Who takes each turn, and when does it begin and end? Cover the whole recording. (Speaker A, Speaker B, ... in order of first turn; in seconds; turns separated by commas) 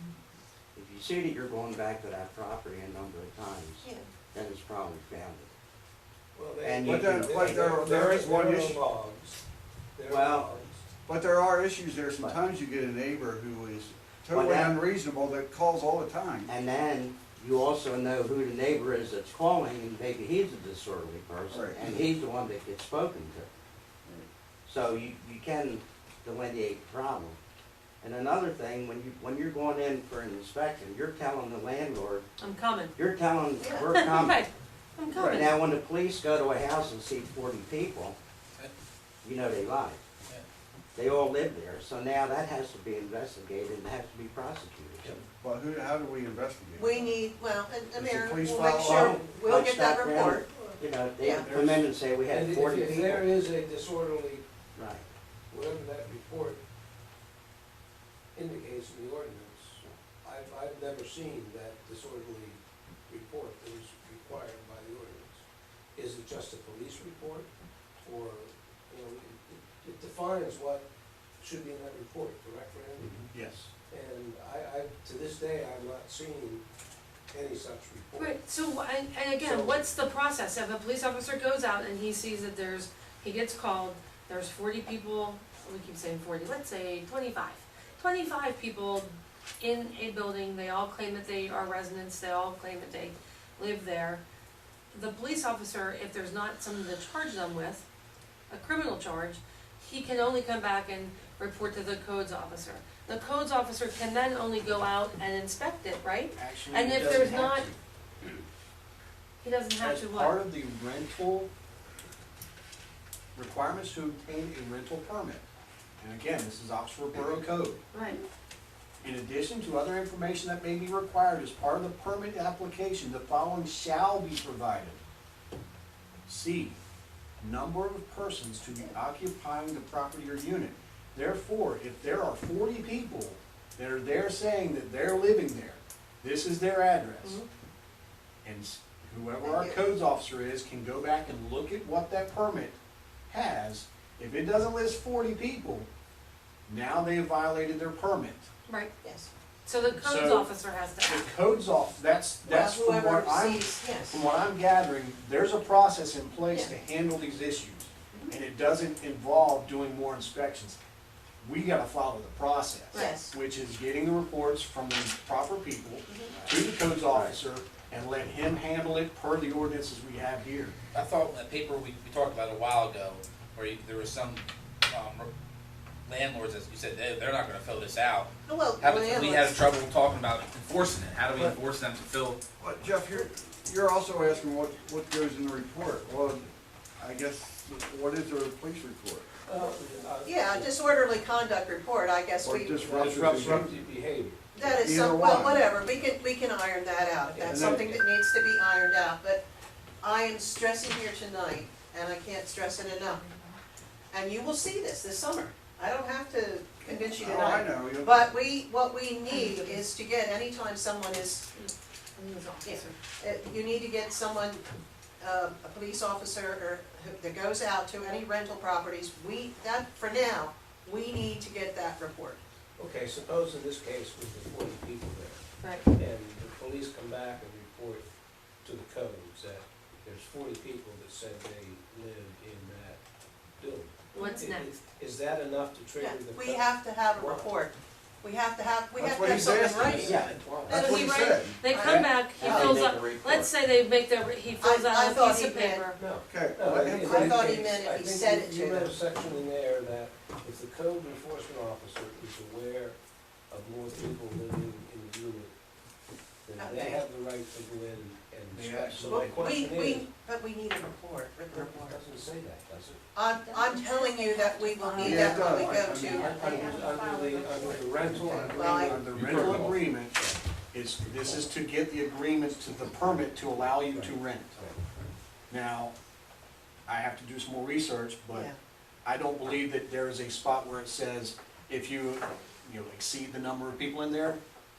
Speaker A: 0.8-5.5, Speaker B: 3.8-4.1, Speaker C: 6.3-9.4, Speaker A: 6.6-7.8, Speaker D: 6.9-8.8, Speaker C: 10.0-10.9, Speaker A: 10.1-10.5, Speaker D: 11.1-16.5, Speaker A: 14.3-14.8, Speaker A: 16.5-23.5, Speaker D: 21.5-21.8, Speaker A: 24.7-27.4, Speaker A: 28.0-32.3, Speaker E: 32.4-33.0, Speaker A: 33.0-34.4, Speaker B: 33.6-33.9, Speaker E: 33.9-35.5, Speaker D: 35.1-35.5, Speaker A: 35.2-38.2, Speaker A: 39.2-40.0, Speaker A: 41.0-45.2, Speaker D: 45.2-47.1, Speaker B: 46.8-51.5, Speaker D: 48.0-49.1, Speaker A: 48.8-53.3, Speaker F: 51.3-51.9, Speaker C: 52.3-54.5, Speaker A: 54.8-55.1, Speaker C: 55.5-56.6, Speaker C: 58.4-65.4, Speaker C: 66.0-67.5, Speaker C: 68.0-70.9, Speaker C: 71.4-73.3, Speaker F: 73.3-73.7, Speaker C: 73.9-76.6, Speaker C: 77.3-78.4, Speaker E: 78.2-94.2, Speaker C: 79.4-79.9, Speaker E: 94.9-97.8, Speaker E: 98.5-107.7, Speaker F: 106.3-107.8, Speaker E: 109.4-110.4, Speaker F: 109.8-111.5, Speaker F: 113.3-115.5, Speaker F: 116.0-117.8, Speaker E: 117.9-118.2, Speaker F: 119.0-125.0, Speaker F: 126.3-126.8, Speaker F: 127.4-137.4, Speaker F: 138.4-142.8, Speaker B: 139.4-139.8, Speaker F: 143.3-145.9, Speaker F: 146.7-148.5, Speaker B: 149.0-149.3, Speaker E: 149.7-151.2, Speaker F: 150.0-150.5, Speaker F: 151.0-160.8, Speaker B: 152.5-154.2, Speaker F: 161.4-170.8, Speaker B: 162.9-163.3, Speaker B: 166.1-166.3, Speaker A: 166.3-167.4, Speaker G: 170.9-175.3, Speaker G: 176.1-178.3, Speaker B: 178.5-179.6, Speaker G: 178.8-182.4, Speaker D: 182.6-189.3, Speaker C: 189.5-190.8, Speaker B: 190.2-192.9, Speaker D: 192.4-193.8, Speaker C: 192.7-194.7, Speaker B: 194.5-199.4, Speaker D: 194.8-195.6, Speaker C: 197.3-198.1, Speaker D: 197.5-197.8, Speaker B: 200.0-203.2, Speaker E: 203.2-203.5, Speaker B: 204.1-211.5, Speaker D: 207.2-208.3, Speaker E: 209.3-209.8, Speaker E: 211.5-213.0, Speaker B: 212.6-214.6, Speaker B: 215.2-222.4, Speaker C: 222.8-233.0, Speaker E: 225.6-225.9, Speaker C: 233.6-237.6, Speaker E: 234.1-234.7, Speaker B: 236.0-242.8, Speaker D: 239.0-241.6, Speaker C: 239.3-240.9, Speaker A: 240.0-240.4, Speaker E: 240.9-246.0, Speaker A: 242.4-243.5, Speaker B: 244.6-245.9, Speaker C: 245.9-253.0, Speaker D: 246.3-247.3, Speaker B: 247.0-248.9, Speaker C: 253.5-255.5, Speaker C: 256.5-260.1, Speaker B: 256.6-257.0, Speaker F: 258.5-259.6, Speaker B: 259.1-262.0, Speaker C: 261.5-263.1, Speaker B: 263.1-266.4, Speaker D: 263.5-269.6, Speaker C: 265.6-270.4, Speaker B: 268.5-269.0, Speaker F: 268.8-270.2, Speaker F: 270.7-274.6, Speaker C: 271.2-271.5, Speaker C: 273.9-274.8, Speaker F: 275.5-275.9, Speaker F: 276.9-278.5, Speaker F: 279.1-284.4